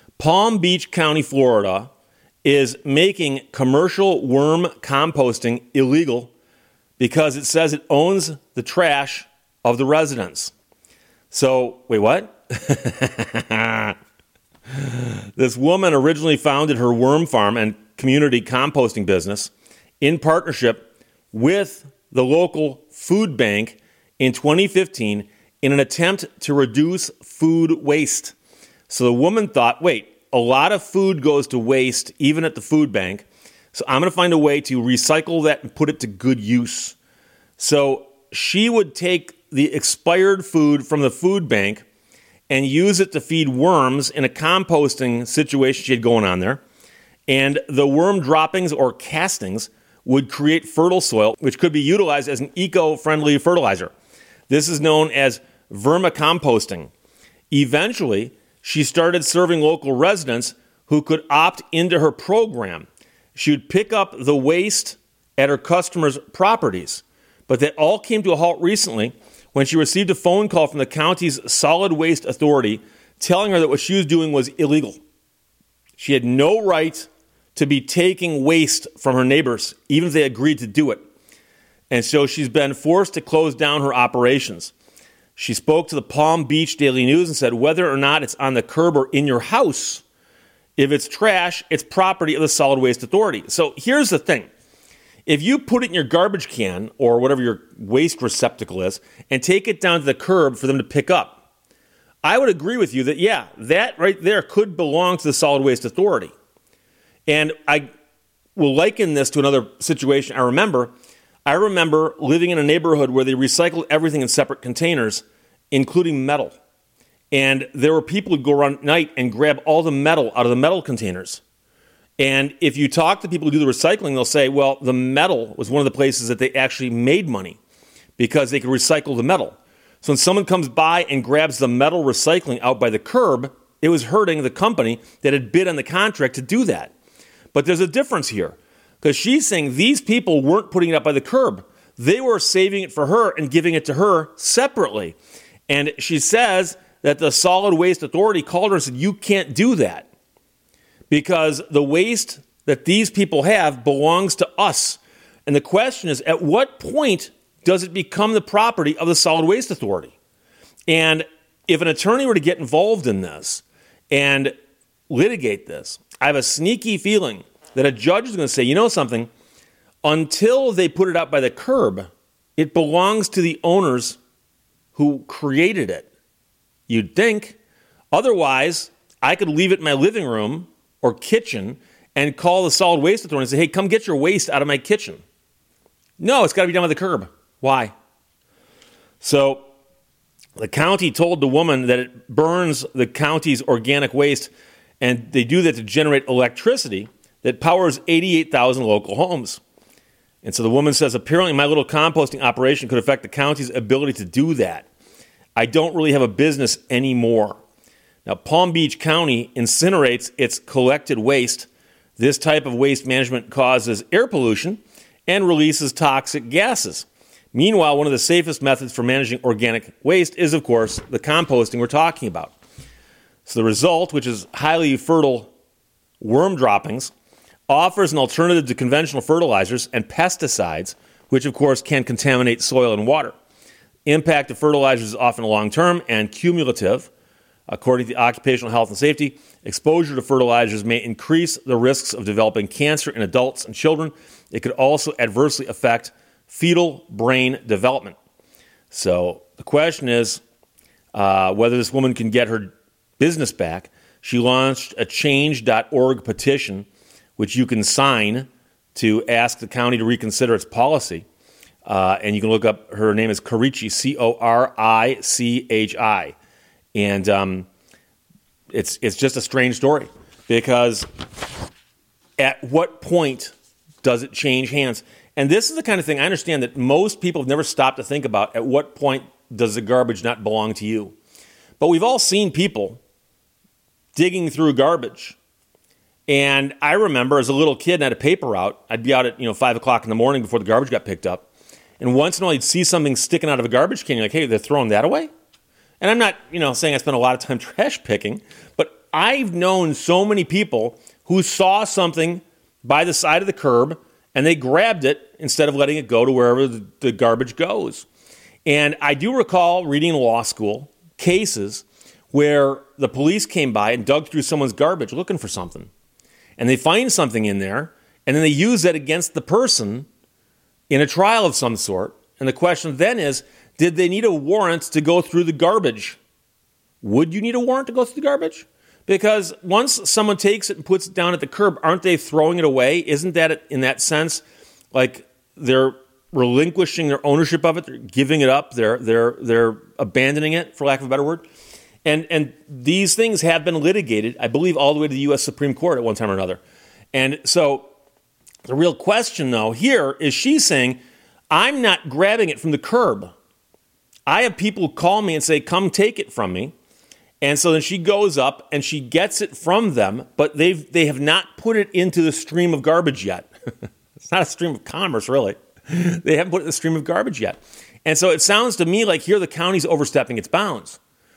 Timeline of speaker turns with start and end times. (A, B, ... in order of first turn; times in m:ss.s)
0:00.2-0:01.9 A
0:02.4-0:06.3 A
0:07.0-0:10.5 A
0:11.3-0:13.9 A
0:14.7-0:28.3 A
0:28.9-0:37.0 A
0:37.6-0:41.8 A
0:42.5-0:46.6 A
0:47.3-0:53.9 A
0:54.5-0:56.9 A
0:57.5-1:15.0 A
1:16.0-1:21.0 A
1:21.9-1:24.7 A
1:25.4-1:30.0 A
1:30.8-1:34.5 A
1:35.2-1:41.4 A
1:42.2-1:46.3 A
1:47.3-1:47.9 A
1:48.6-1:50.9 A
1:51.4-1:56.6 A
1:57.3-2:01.4 A
2:02.2-2:07.6 A
2:08.2-2:16.9 A
2:17.5-2:25.2 A
2:25.7-2:30.1 A
2:31.1-2:40.1 A
2:40.9-2:44.5 A
2:45.1-2:49.3 A
2:50.0-2:54.2 A
2:54.9-2:56.1 A
2:56.9-2:57.6 A
2:58.1-3:05.2 A
3:06.2-3:07.9 A
3:09.2-3:09.7 A
3:10.6-3:19.6 A
3:20.4-3:24.9 A
3:25.6-3:27.6 A
3:28.2-3:42.5 A
3:43.4-3:45.5 A
3:46.2-3:47.1 A
3:47.7-3:53.3 A
3:54.0-3:57.1 A
3:57.7-4:08.2 A
4:08.9-4:10.4 A
4:11.1-4:21.2 A
4:21.8-4:26.4 A
4:26.9-4:27.7 A
4:28.7-4:31.1 A
4:32.4-4:41.2 A
4:41.8-4:43.0 A
4:44.1-4:45.4 A
4:46.3-4:51.5 A
4:52.0-4:55.3 A
4:56.0-5:08.1 A
5:08.6-5:15.9 A
5:16.6-5:20.1 A
5:20.9-5:26.2 A
5:27.0-5:41.4 A
5:42.0-5:46.6 A
5:47.1-5:47.9 A
5:48.6-5:51.0 A
5:51.5-5:53.3 A
5:54.2-5:56.7 A
5:57.4-6:03.5 A
6:04.2-6:11.0 A